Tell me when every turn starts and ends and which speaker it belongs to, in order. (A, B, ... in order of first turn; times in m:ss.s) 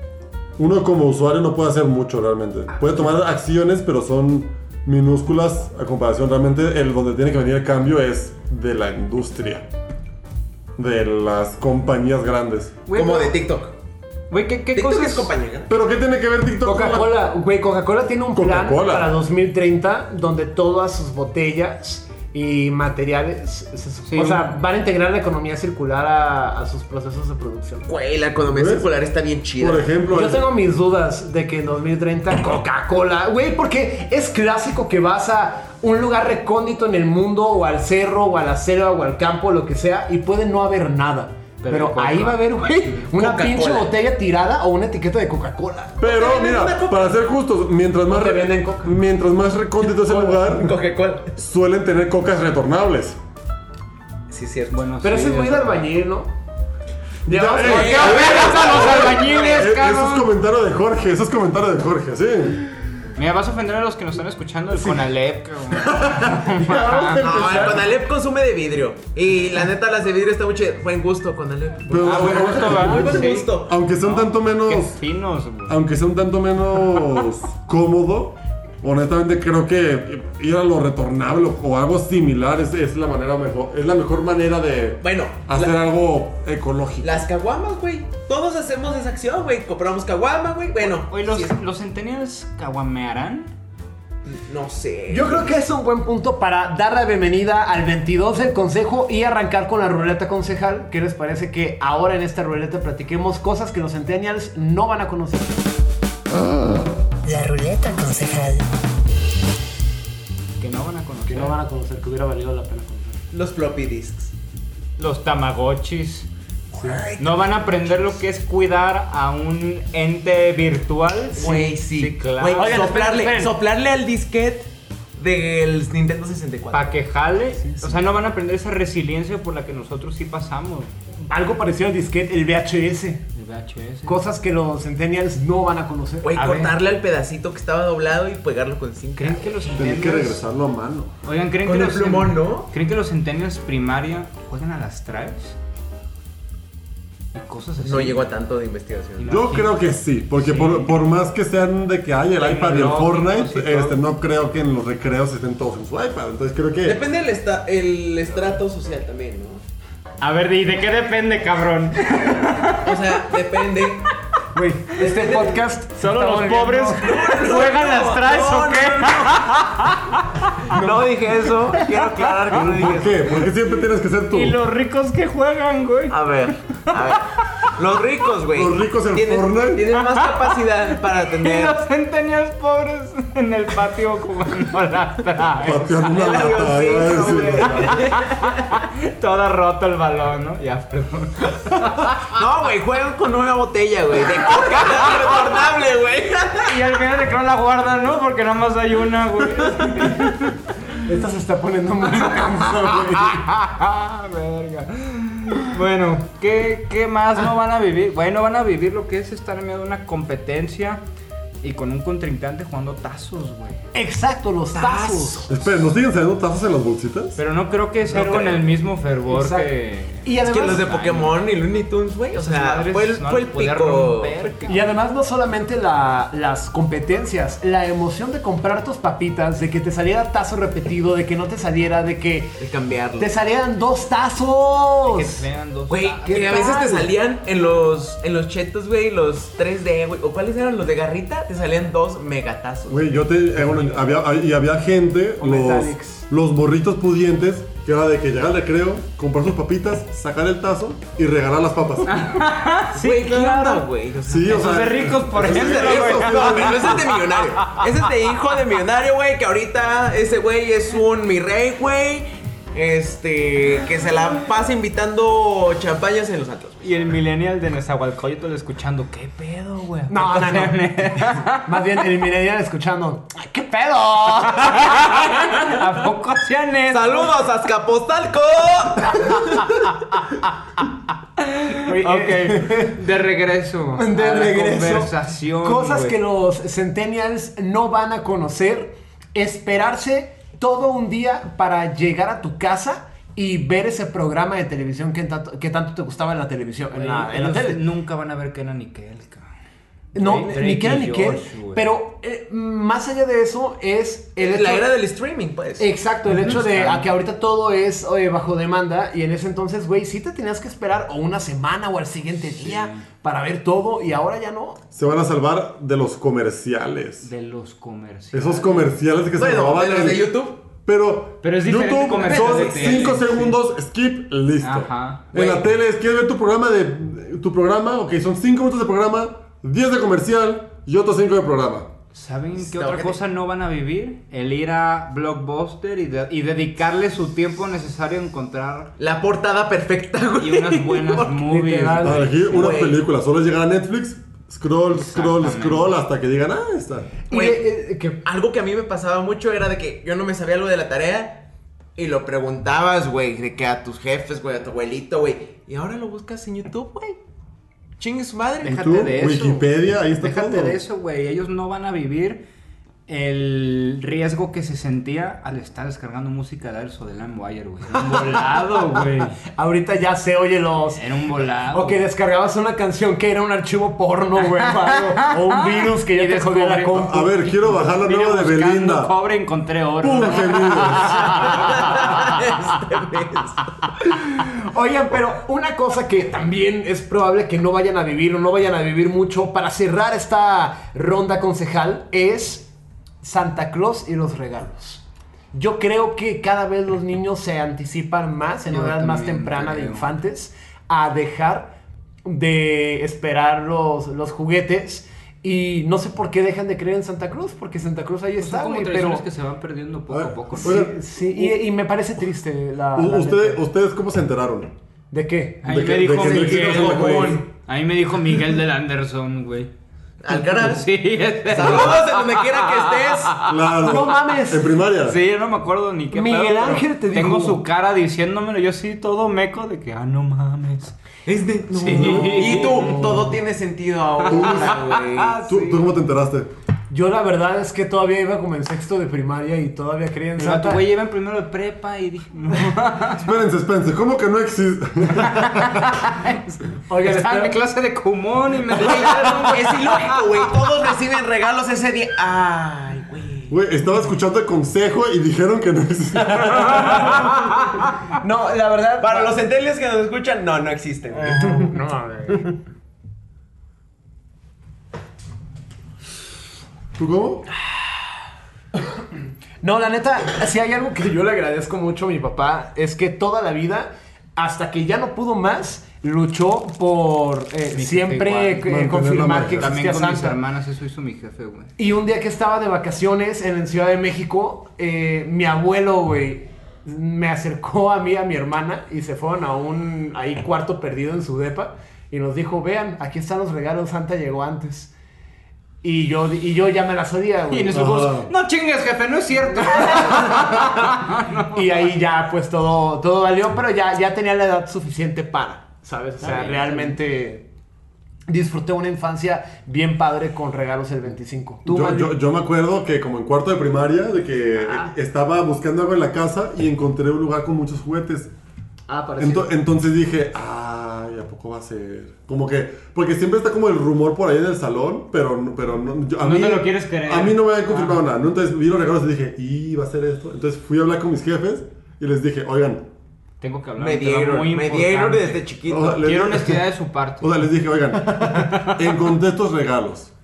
0:00.6-0:09.6 A
0:10.8-0:12.8 A
0:12.9-0:13.4 B
0:12.9-0:13.8 C
0:14.3-0:15.3 B
0:14.7-0:15.7 C
0:15.7-0:17.1 A
0:16.6-0:27.9 D
0:18.3-0:19.1 A
0:24.1-0:24.6 B
0:27.9-0:29.9 C
0:28.5-0:28.9 A
0:29.6-0:30.4 A
0:30.1-0:46.1 D
0:41.6-0:43.1 B
0:43.1-0:43.9 C
0:46.0-0:50.7 A
0:46.0-0:47.2 C
0:48.1-0:49.0 D
0:50.0-0:50.5 D
0:50.5-0:51.3 C
0:51.4-0:53.2 A
0:54.3-0:54.8 C
0:54.7-0:55.9 B
0:55.0-0:56.3 D
0:57.3-0:58.2 D
0:57.3-1:02.6 A
0:57.6-0:59.6 C
0:57.6-1:00.3 B
1:03.2-1:07.3 B
1:04.8-1:05.0 D
1:05.8-1:07.9 D
1:07.2-1:13.7 C
1:11.9-1:14.9 A
1:11.9-1:15.8 B
1:15.7-1:27.2 A
1:25.0-1:25.8 C
1:27.0-1:31.5 C
1:30.8-1:33.5 B
1:34.3-1:35.5 C
1:35.1-1:45.6 D
1:46.4-1:48.7 E
1:50.6-1:51.6 B
1:51.3-1:53.2 D
1:53.3-1:54.3 C
1:55.0-1:56.3 B
1:56.8-1:57.1 D
1:56.8-1:57.3 C
1:57.2-2:02.9 B
2:01.4-2:06.9 C
2:01.4-2:01.8 D
2:02.6-2:03.5 D
2:06.7-2:10.9 B
2:11.3-2:13.2 D
2:13.4-2:14.2 B
2:14.1-2:16.7 D
2:16.2-2:19.6 C
2:16.4-2:16.7 B
2:19.2-2:20.4 B
2:19.8-2:21.1 A
2:21.2-2:25.6 B
2:21.6-2:22.7 C
2:27.3-2:28.2 B
2:27.8-2:29.3 C
2:29.2-2:29.8 B
2:29.2-2:37.0 A
2:30.4-2:31.0 B
2:32.4-2:34.0 B
2:36.8-2:39.6 C
2:40.2-2:43.4 B
2:42.7-2:44.1 C
2:44.5-2:47.1 D
2:45.0-2:45.6 C
2:46.0-2:50.8 B
2:47.0-2:49.5 C
2:50.6-2:53.4 C
2:51.8-2:52.5 B
2:52.5-2:54.6 A
2:54.3-2:56.2 B
2:56.1-3:01.8 C
2:56.9-2:57.2 B
2:58.5-2:59.9 A
2:59.9-3:06.6 B
3:05.6-3:07.9 A
3:06.1-3:08.7 C
3:07.6-3:12.3 B
3:12.2-3:16.9 C
3:14.8-3:15.1 B
3:16.6-3:20.6 B
3:21.0-3:23.5 D
3:22.8-3:31.0 B
3:31.6-3:33.8 B
3:33.9-3:35.5 D
3:34.7-3:35.5 C
3:35.5-3:37.4 A
3:37.4-3:41.4 B
3:38.1-3:38.7 D
3:39.3-3:39.7 D
3:40.2-3:40.9 D
3:40.4-3:44.5 C
3:42.4-3:44.9 B
3:44.7-3:52.6 D
3:52.6-3:53.4 C
3:53.2-3:55.5 D
3:55.0-3:56.7 B
3:55.9-4:03.1 C
3:56.3-3:57.1 D
4:02.9-4:12.2 A
4:05.4-4:06.3 D
4:12.1-4:13.9 B
4:12.9-4:26.8 C
4:14.2-4:16.9 A
4:14.4-4:18.1 B
4:26.8-4:32.0 B
4:30.1-4:31.0 D
4:31.7-4:35.1 D
4:34.4-4:37.4 B
4:36.9-4:39.6 C
4:41.4-4:46.2 B
4:41.8-4:43.0 D
4:44.0-4:57.8 D
4:56.9-4:59.5 B
5:00.1-5:04.9 D
5:00.2-5:01.9 B
5:04.4-5:05.9 C
5:05.8-5:14.8 D
5:06.3-5:07.1 B
5:12.5-5:13.0 B
5:14.9-5:17.3 A
5:17.2-5:19.0 B
5:18.3-5:20.3 A
5:19.4-5:20.6 C
5:20.8-5:31.9 A
5:21.4-5:23.6 B
5:22.1-5:23.2 C
5:24.6-5:25.3 B
5:25.3-5:25.6 C
5:32.1-5:38.9 B
5:32.6-5:33.2 C
5:39.0-5:41.4 C
5:40.4-5:42.7 B
5:41.4-5:42.4 D
5:42.0-5:47.1 A
5:42.5-5:43.0 C
5:44.9-5:45.9 B
5:47.3-5:48.2 D
5:47.3-5:47.6 C
5:48.2-5:51.5 C
5:52.0-5:57.2 C
5:58.0-5:58.8 C
5:58.6-6:02.4 B
5:58.7-6:00.8 A
6:03.1-6:09.4 B
6:07.9-6:11.0 D
6:10.9-6:12.0 B
6:11.7-6:17.4 D
6:14.6-6:23.1 B
6:16.9-6:19.1 A
6:20.0-6:21.2 A
6:21.6-6:23.6 C
6:24.1-6:32.7 D
6:33.2-6:41.7 D
6:38.7-6:40.1 B
6:42.2-6:49.2 D
6:48.4-6:50.9 B
6:50.1-6:51.6 A
6:50.6-6:53.6 D
6:53.0-6:54.7 A
6:55.1-6:55.7 D
6:55.6-6:59.7 B
6:55.7-6:57.4 A
6:56.1-6:57.5 C
7:00.2-7:00.9 C
7:00.3-7:03.6 B
7:01.5-7:03.4 C
7:03.4-7:05.2 A
7:03.8-7:04.7 D
7:05.0-7:11.0 B
7:06.1-7:07.6 D
7:11.3-7:15.8 C
7:11.7-7:13.3 B
7:11.9-7:12.4 A
7:12.3-7:13.3 D
7:14.2-7:15.3 B
7:14.3-7:14.8 A
7:15.4-7:16.5 A
7:16.9-7:20.8 D
7:20.4-7:23.3 B
7:23.2-7:26.0 A
7:25.3-7:30.5 B
7:26.9-7:27.6 D
7:28.7-7:33.5 C
7:33.5-7:37.2 A
7:36.4-7:37.3 D
7:38.2-7:39.3 D
7:39.0-7:41.7 C
7:41.2-7:42.5 D
7:47.0-7:47.5 A
7:49.6-8:00.4 D
7:57.7-7:58.7 B
7:58.7-7:59.7 A
7:59.5-8:01.7 B
8:01.8-8:14.9 D
8:15.8-8:18.0 D
8:17.5-8:21.9 B
8:17.7-8:18.3 A
8:19.6-8:21.0 D
8:21.5-8:27.5 D
8:26.2-8:27.0 B
8:28.3-8:32.1 D
8:31.7-8:38.3 A
8:34.6-8:34.9 D
8:38.9-8:39.5 D
8:39.2-8:52.9 A
8:46.2-8:48.0 B
8:53.4-8:57.4 B
8:53.8-8:56.1 C
8:55.7-8:56.6 A
8:57.2-9:00.1 A